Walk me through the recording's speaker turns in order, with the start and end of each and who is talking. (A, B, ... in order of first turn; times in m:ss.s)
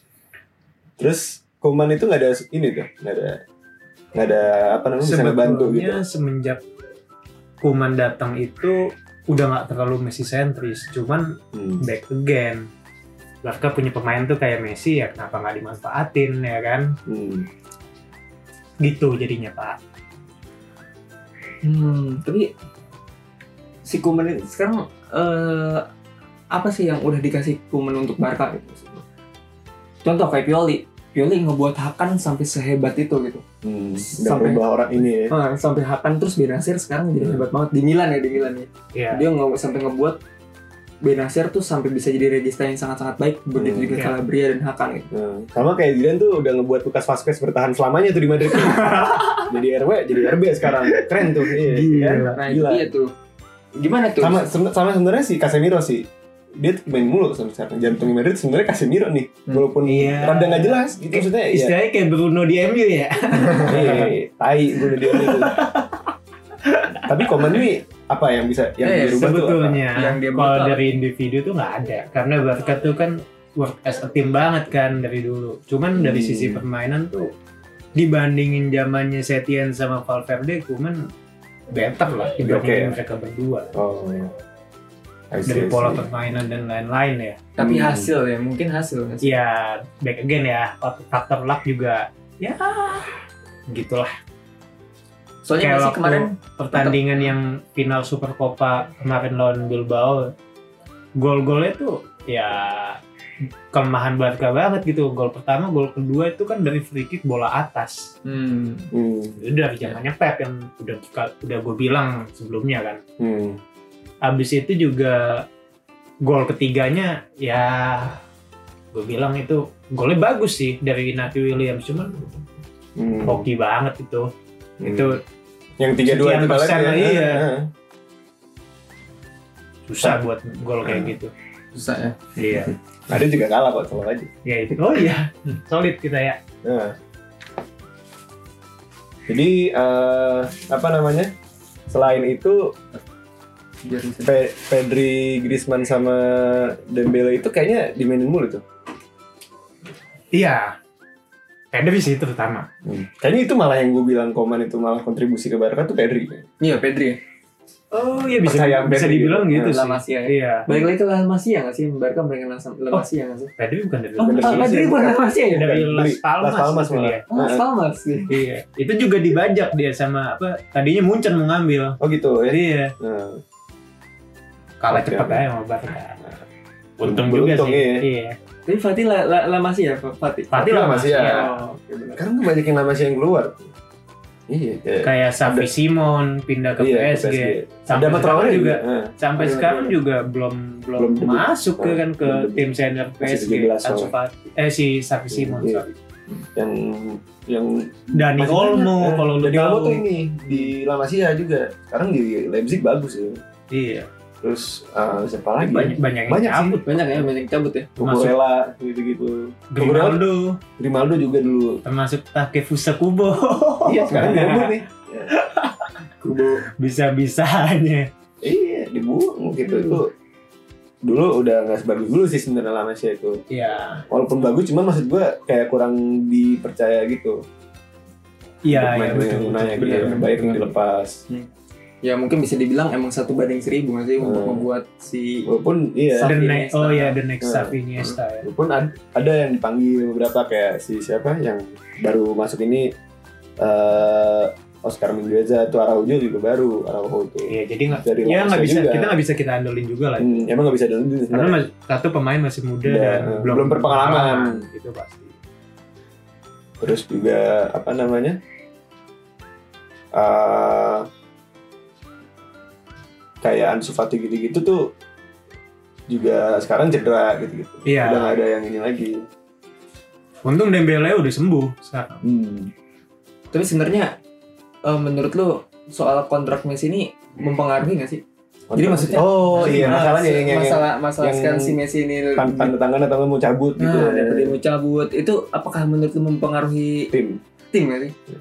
0:01.0-0:03.4 A
0:04.2-0:06.0 A
0:05.0-0:06.6 B
0:07.6-0:08.8 B
0:09.3-0:11.3 B
0:11.5-0:11.9 A
0:11.8-0:12.7 B
0:13.4-0:16.9 B
0:17.1-0:17.5 A
0:18.8-0:19.8 B
0:21.6-0:22.5 C
0:23.9-0:25.8 C
0:26.5-0:29.0 C
0:30.0-0:33.4 C
0:33.6-0:35.3 A
0:34.0-0:34.6 C
0:35.2-0:40.2 C
0:38.9-0:39.3 B
0:41.0-0:45.1 C
0:43.6-0:44.0 A
0:45.1-0:52.9 A
0:48.5-0:49.5 B
0:51.6-0:52.4 B
0:52.3-0:53.1 C
0:53.8-0:54.6 C
0:54.2-0:56.1 A
0:56.6-1:01.8 A
0:59.8-1:04.2 B
1:03.6-1:05.6 A
1:04.9-1:06.1 B
1:06.6-1:07.6 B
1:07.1-1:09.8 A
1:08.8-1:09.3 C
1:09.2-1:17.3 B
1:10.0-1:10.9 C
1:16.0-1:16.6 A
1:18.0-1:21.0 B
1:21.7-1:23.7 B
1:22.4-1:23.0 A
1:23.7-1:24.3 A
1:25.3-1:26.1 A
1:25.5-1:27.5 B
1:27.6-1:29.4 C
1:27.6-1:28.1 A
1:29.2-1:33.2 B
1:33.7-1:34.1 B
1:35.4-1:37.3 C
1:35.6-1:40.3 B
1:41.2-1:43.0 B
1:43.7-1:48.0 B
1:48.2-1:48.9 C
1:48.9-1:49.4 A
1:49.4-1:53.0 B
1:53.2-1:53.6 A
1:54.2-1:55.2 B
1:56.2-1:58.2 B
1:58.9-2:02.2 B
2:03.0-2:03.5 A
2:03.3-2:04.3 B
2:04.8-2:05.2 A
2:04.8-2:05.2 B
2:05.8-2:07.7 A
2:06.0-2:07.5 B
2:09.9-2:11.3 B
2:10.8-2:11.1 A
2:11.7-2:12.2 C
2:12.4-2:12.7 B
2:13.1-2:14.3 A
2:14.4-2:16.4 B
2:16.6-2:17.0 A
2:19.3-2:21.3 A
2:21.9-2:22.7 A
2:23.8-2:24.5 C
2:24.2-2:28.6 A
2:30.3-2:30.8 B
2:31.7-2:32.7 B
2:32.8-2:36.4 A
2:36.6-2:37.2 C
2:37.9-2:40.8 B
2:38.4-2:39.8 A
2:39.6-2:43.5 C
2:43.6-2:44.8 B
2:44.2-2:45.8 C
2:44.2-2:47.6 A
2:45.6-2:47.3 B
2:47.3-2:48.4 C
2:48.3-2:52.0 B
2:52.0-2:53.4 A
2:52.5-2:52.9 B
2:54.8-2:56.2 B
2:54.9-2:55.4 A
2:57.0-2:58.4 B
2:57.0-2:58.1 A
2:58.7-3:00.7 C
3:00.5-3:01.7 B
3:00.6-3:01.5 A
3:01.3-3:02.2 C
3:02.1-3:03.7 A
3:04.5-3:05.7 A
3:05.0-3:15.9 B
3:06.8-3:09.1 A
3:09.4-3:10.0 C
3:11.0-3:14.1 A
3:15.3-3:15.8 A
3:16.6-3:23.4 A
3:18.2-3:20.7 B
3:23.7-3:24.1 B
3:24.4-3:26.8 A
3:25.6-3:27.2 B
3:26.8-3:27.9 C
3:28.0-3:30.3 A
3:28.0-3:28.4 B
3:29.7-3:30.6 B
3:30.8-3:31.8 A
3:31.8-3:36.0 B
3:33.8-3:35.3 A
3:36.2-3:36.6 C
3:36.8-3:38.1 B
3:38.4-3:40.1 A
3:39.7-3:40.0 B
3:41.0-3:43.4 A
3:43.5-3:44.0 B
3:44.1-3:47.4 A
3:48.6-3:50.3 B
3:48.7-3:51.2 A
3:49.8-3:50.7 C
3:52.0-3:55.5 C
3:54.2-3:54.6 A
3:55.5-3:56.4 A
3:56.2-3:57.2 C
3:56.2-3:58.5 B
3:57.4-3:57.8 A
3:58.4-4:02.9 A
4:03.6-4:09.2 A
4:07.5-4:10.3 B
4:10.2-4:11.6 A
4:11.3-4:15.3 B
4:12.8-4:14.6 A
4:16.8-4:18.4 A
4:20.2-4:21.1 A
4:23.4-4:24.8 A
4:26.1-4:29.2 A
4:27.9-4:28.4 B
4:30.4-4:32.2 B
4:32.2-4:32.7 A
4:33.5-4:34.1 C
4:34.9-4:38.2 C
4:38.7-4:41.8 A
4:38.8-4:42.7 C
4:39.5-4:40.1 B
4:42.4-4:44.6 A
4:43.8-4:47.1 C
4:47.1-4:47.4 A
4:47.7-4:48.1 C